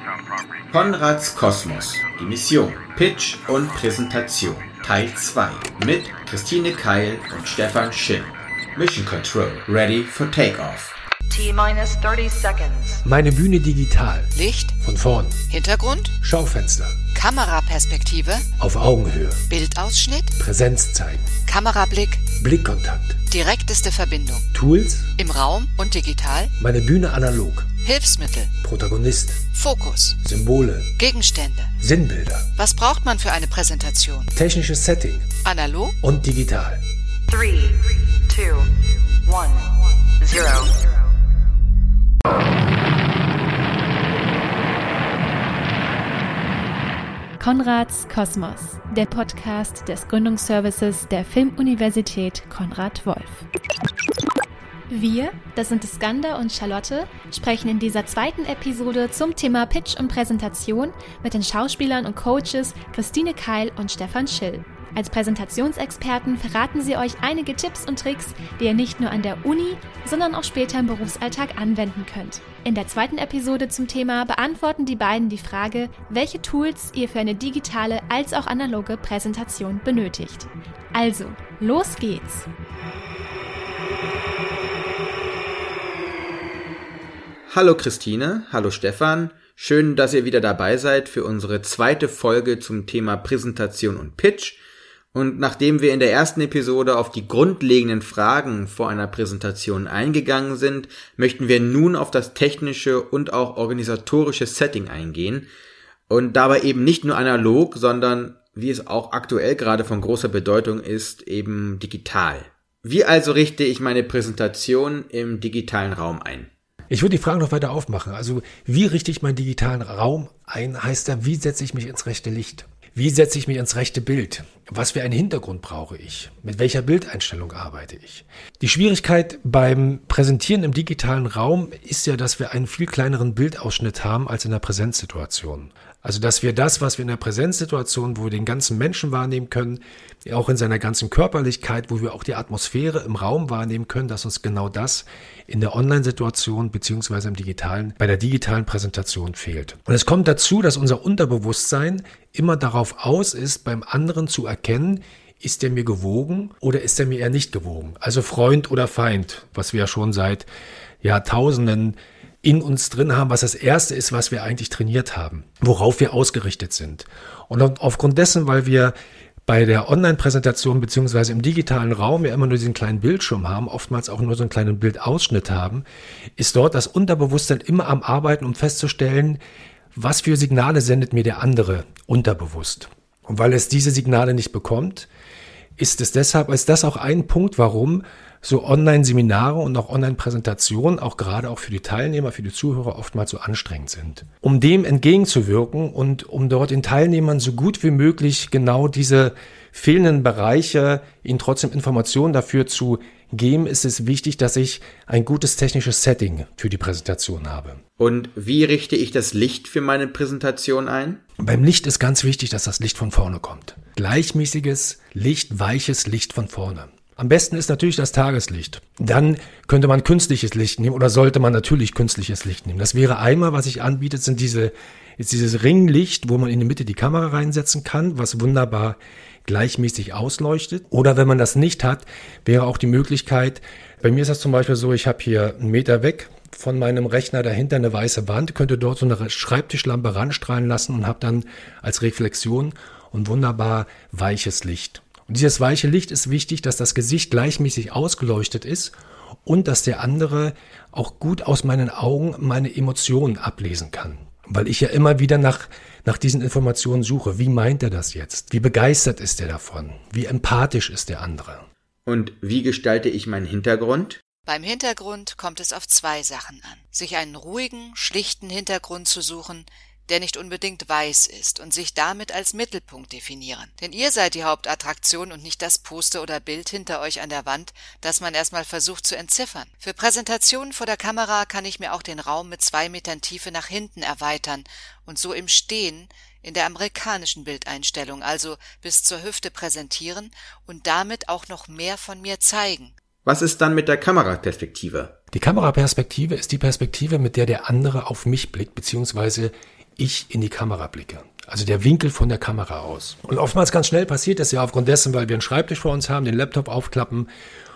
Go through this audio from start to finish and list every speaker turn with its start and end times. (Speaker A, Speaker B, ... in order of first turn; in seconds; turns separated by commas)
Speaker A: 0.7-10.9, Speaker B: 11.3-13.0, Speaker C: 13.1-15.4, Speaker D: 14.3-14.8, Speaker D: 15.5-16.1, Speaker C: 16.2-17.0, Speaker D: 17.1-18.5, Speaker C: 18.6-19.4, Speaker D: 19.5-20.3, Speaker C: 20.4-21.3, Speaker D: 21.4-22.3, Speaker C: 22.4-23.2, Speaker D: 23.3-24.5, Speaker C: 24.5-25.1, Speaker D: 25.2-26.5, Speaker C: 26.6-27.7, Speaker D: 27.8-28.5, Speaker C: 28.6-29.4, Speaker D: 29.5-30.2, Speaker C: 30.2-30.9, Speaker D: 31.0-31.7, Speaker C: 31.8-32.5, Speaker D: 32.6-34.3, Speaker C: 34.4-35.3, Speaker D: 35.4-36.0, Speaker C: 36.0-36.8, Speaker B: 37.3-40.8, Speaker E: 47.4-53.5, Speaker E: 54.9-82.5, Speaker A: 87.5-94.6, Speaker A: 95.1-105.5, Speaker A: 106.1-116.5, Speaker C: 116.9-160.5, Speaker C: 161.0-168.9, Speaker C: 169.5-175.9, Speaker C: 176.4-179.4, Speaker C: 179.9-185.1, Speaker C: 185.8-207.8, Speaker A: 208.0-211.2, Speaker C: 211.4-248.9, Speaker C: 249.5-261.7, Speaker A: 262.1-264.2, Speaker D: 264.5-292.9, Speaker A: 293.2-295.1, Speaker C: 295.3-307.3